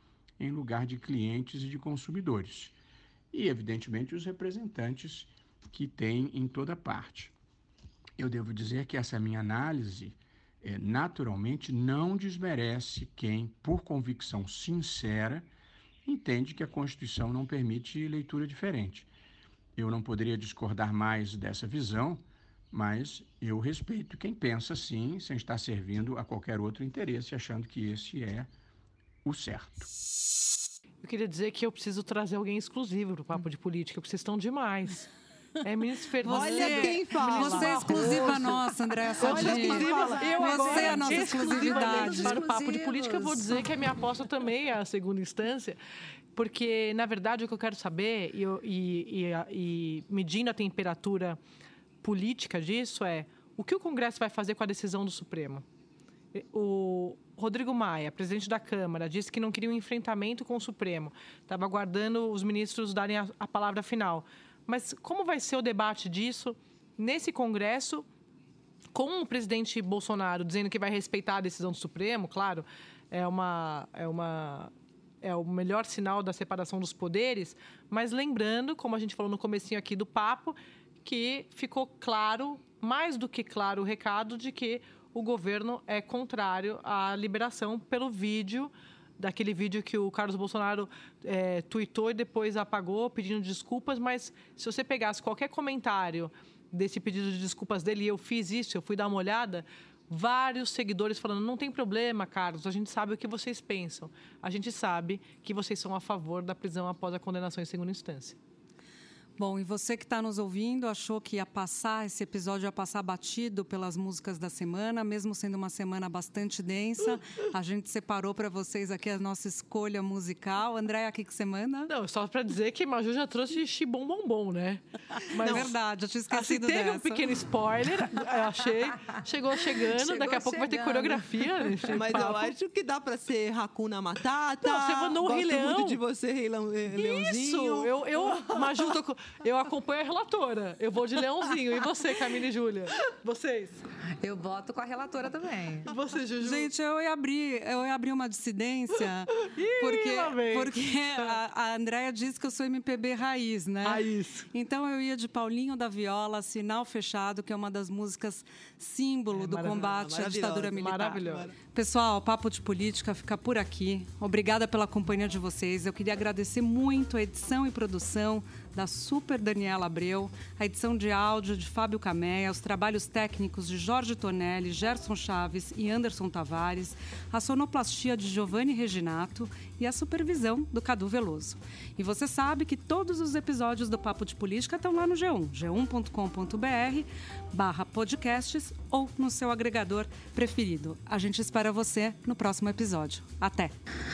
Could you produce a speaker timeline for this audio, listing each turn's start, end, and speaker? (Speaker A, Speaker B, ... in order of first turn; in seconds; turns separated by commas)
Speaker A: 0.4-2.7, Speaker A: 3.3-7.3, Speaker A: 8.2-15.5, Speaker A: 16.0-19.1, Speaker A: 19.8-28.5, Speaker A: 29.2-29.9, Speaker B: 31.0-35.1, Speaker B: 35.6-38.5, Speaker C: 36.2-42.4, Speaker D: 36.2-38.6, Speaker D: 39.2-41.0, Speaker B: 39.2-45.8, Speaker E: 39.2-43.7, Speaker B: 46.4-51.4, Speaker B: 52.0-55.6, Speaker B: 56.3-68.0, Speaker B: 68.9-108.4, Speaker C: 109.4-121.9, Speaker B: 121.9-125.7, Speaker D: 125.4-125.7, Speaker C: 125.5-127.2, Speaker B: 126.3-132.5, Speaker E: 129.9-131.9, Speaker D: 131.9-138.9, Speaker B: 134.6-136.0, Speaker B: 136.9-143.8, Speaker E: 144.2-145.9, Speaker B: 145.9-146.7, Speaker C: 146.4-193.7, Speaker B: 149.4-151.0, Speaker B: 153.8-154.5, Speaker B: 159.3-161.5, Speaker D: 159.9-161.5